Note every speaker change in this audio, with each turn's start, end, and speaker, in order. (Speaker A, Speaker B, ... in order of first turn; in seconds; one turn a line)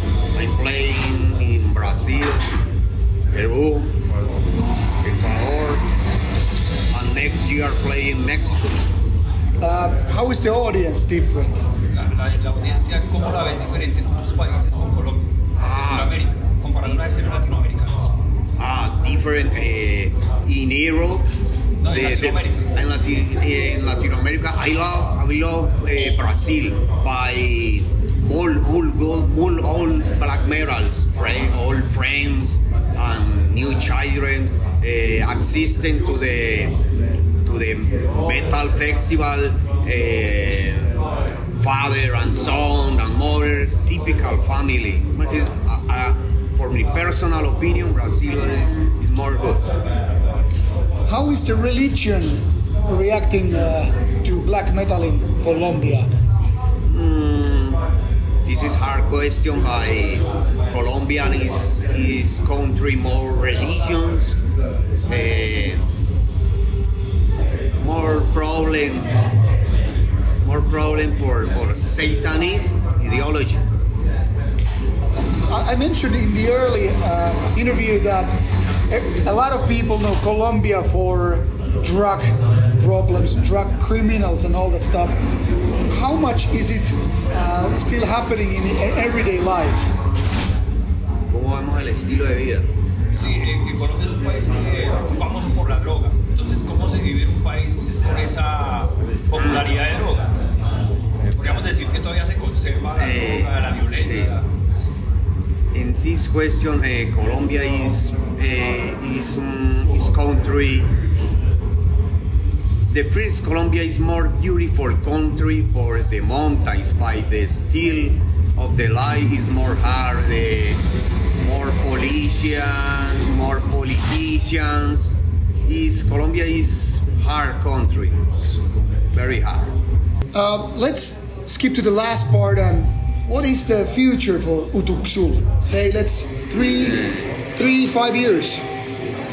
Speaker A: 0.3-2.5
Speaker A: 3.3-4.0
Speaker A: 5.0-5.8
Speaker A: 6.9-8.9
Speaker B: 9.6-11.6
Speaker C: 11.9-18.1
Speaker A: 15.6-16.2
Speaker A: 18.6-21.3
Speaker C: 21.8-22.8
Speaker A: 21.9-36.7
Speaker A: 37.5-41.0
Speaker A: 41.6-49.6
Speaker B: 51.0-56.1
Speaker A: 56.9-57.8
Speaker A: 58.4-64.4
Speaker A: 65.1-65.8
Speaker A: 67.8-69.1
Speaker A: 70.4-73.6
Speaker B: 75.3-85.2
Speaker B: 85.9-89.9
Speaker A: 91.3-92.7
Speaker C: 93.1-100.3
Speaker A: 99.3-99.7
Speaker C: 101.3-104.5
Speaker A: 103.0-104.3
Speaker A: 105.7-110.9
Speaker A: 112.9-120.8
Speaker A: 121.4-128.6
Speaker A: 129.1-129.7
Speaker B: 130.3-138.6
Speaker A: 136.5-137.3